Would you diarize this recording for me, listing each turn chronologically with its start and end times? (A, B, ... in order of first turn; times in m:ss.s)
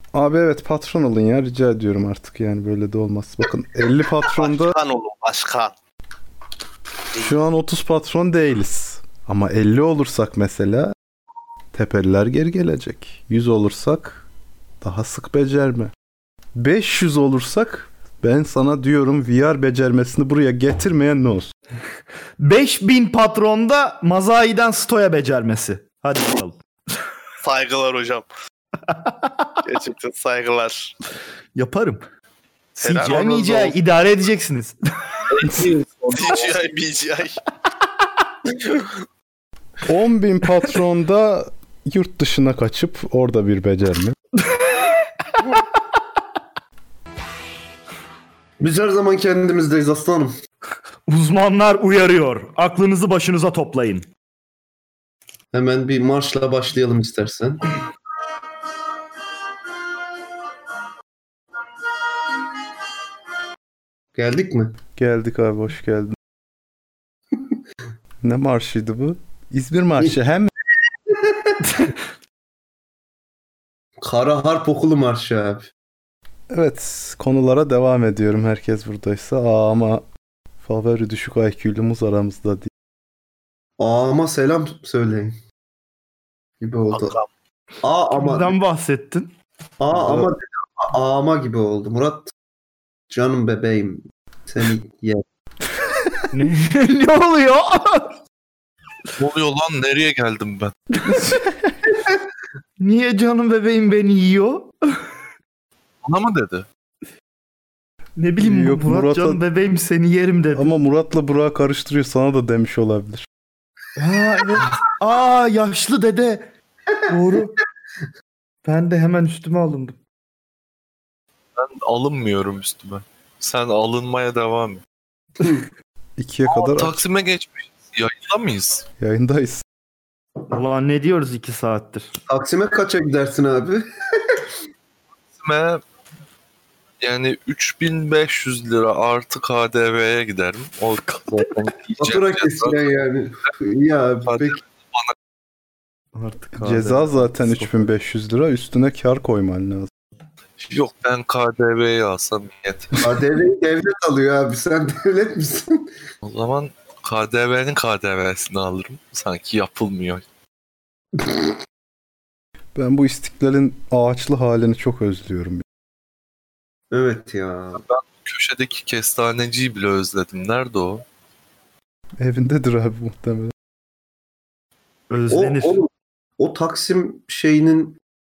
0:00.1-0:04.8 A
0:04.3-0:05.7 B
0:07.2-0:10.9 A
0:11.7-0:14.2 A
0:14.8-0:15.9 A
0:16.6-0:21.5 A
0:22.4-0:26.6 C
0:27.4-0:28.3 B
0:28.9-0:29.6 C
0:29.6-0:30.9 B
0:31.5-0:32.0 C
0:32.7-0:35.2 C
0:32.8-0:33.8 B
0:35.3-0:36.6 D
0:36.1-0:37.4 B
0:38.6-0:39.0 B
0:39.8-0:44.1 A
0:44.5-0:45.6 C
0:48.6-0:50.3 E
0:51.1-0:54.1 C
0:55.5-0:57.7 E
1:04.1-1:04.8 E
1:05.0-1:06.2 A
1:08.2-1:10.5 A
1:11.1-1:11.4 E
1:11.6-1:12.0 C
1:14.0-1:15.7 E
1:16.5-1:20.0 A
1:20.6-1:22.7 A
1:23.8-1:25.3 E
1:26.6-1:27.2 E
1:26.9-1:27.3 B
1:27.8-1:28.6 E
1:28.2-1:29.3 C
1:29.8-1:32.3 E
1:29.9-1:30.3 C
1:33.1-1:35.2 E
1:36.3-1:38.2 C
1:39.2-1:40.7 D
1:41.0-1:41.3 C
1:41.1-1:41.4 A
1:42.8-1:45.0 C
1:46.0-1:46.6 D
1:48.2-1:50.7 C
1:48.4-1:49.4 A
1:50.6-1:53.2 A
1:54.0-1:56.5 C
1:57.1-1:57.6 C
1:58.6-2:00.0 C
2:01.6-2:04.8 D
2:06.2-2:07.0 A
2:06.5-2:08.9 D
2:09.0-2:09.6 A
2:10.5-2:12.1 C
2:12.3-2:14.4 E
2:15.4-2:15.8 D
2:17.0-2:22.9 D
2:22.0-2:24.6 E
2:24.2-2:25.1 D
2:26.1-2:27.9 C
2:26.5-2:29.9 A
2:30.6-2:33.0 D
2:33.0-2:35.8 E
2:36.2-2:40.2 D
2:42.8-2:45.6 A
2:46.9-2:47.8 E
2:47.8-2:51.0 D
2:52.2-2:53.5 A
2:55.1-2:55.8 C
2:55.3-2:58.0 E